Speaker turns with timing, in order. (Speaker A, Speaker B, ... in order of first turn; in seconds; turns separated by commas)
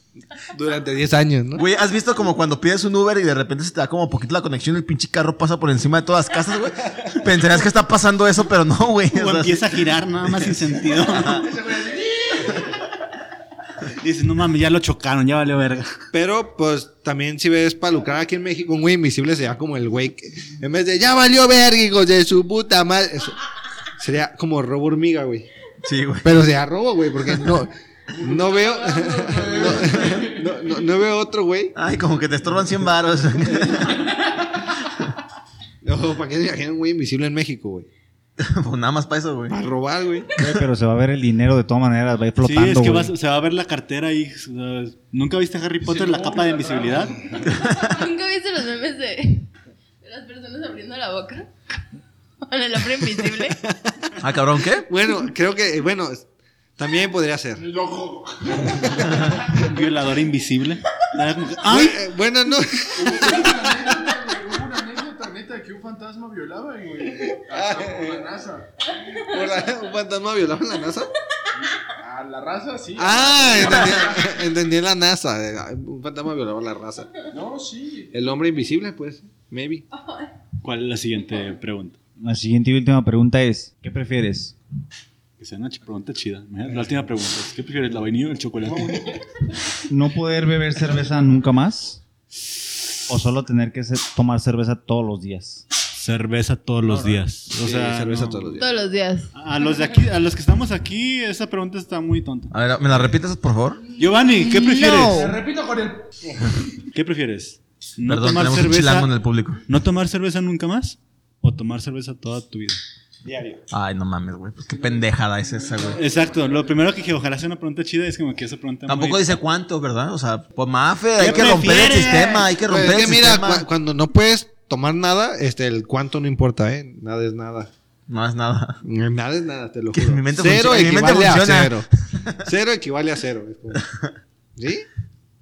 Speaker A: 0.5-1.6, Speaker B: 1.5-9.6, Speaker C: 9.1-11.5, Speaker B: 11.2-11.4, Speaker D: 11.3-12.7, Speaker C: 14.0-16.0, Speaker A: 16.1-23.3, Speaker A: 24.0-25.5, Speaker B: 25.8-26.3, Speaker A: 26.2-31.7, Speaker D: 28.2-30.8, Speaker B: 31.7-34.1, Speaker A: 35.8-37.9, Speaker B: 38.4-39.6, Speaker A: 39.5-40.5, Speaker E: 40.4-43.1, Speaker C: 42.4-47.1, Speaker D: 45.8-47.5, Speaker F: 47.5-49.5, Speaker F: 50.0-51.5, Speaker F: 52.4-53.6, Speaker B: 54.2-54.9, Speaker A: 54.8-57.6, Speaker D: 57.6-59.1, Speaker C: 59.5-62.0, Speaker A: 61.6-63.6, Speaker D: 62.9-68.7, Speaker A: 67.2-68.2, Speaker A: 69.2-71.1, Speaker D: 72.0-74.4, Speaker A: 73.0-77.2, Speaker D: 77.3-78.1, Speaker A: 78.1-79.8, Speaker C: 80.6-82.0, Speaker E: 82.2-84.5, Speaker C: 85.4-89.1, Speaker E: 89.9-92.0, Speaker E: 93.1-95.6, Speaker C: 95.9-98.6, Speaker A: 96.9-98.7, Speaker F: 98.6-99.3, Speaker C: 99.3-102.5, Speaker B: 102.5-103.8, Speaker C: 104.0-105.3, Speaker E: 104.4-105.3, Speaker D: 105.0-106.1, Speaker C: 106.9-109.1, Speaker B: 108.1-109.6, Speaker C: 109.7-112.8, Speaker A: 113.2-113.6, Speaker B: 113.7-116.0, Speaker C: 115.9-119.3, Speaker B: 118.9-123.7, Speaker A: 121.2-122.0, Speaker C: 121.2-122.5, Speaker A: 122.6-127.7, Speaker B: 128.1-128.8, Speaker A: 128.8-131.8, Speaker B: 129.9-132.4, Speaker A: 132.4-133.8, Speaker A: 134.6-134.8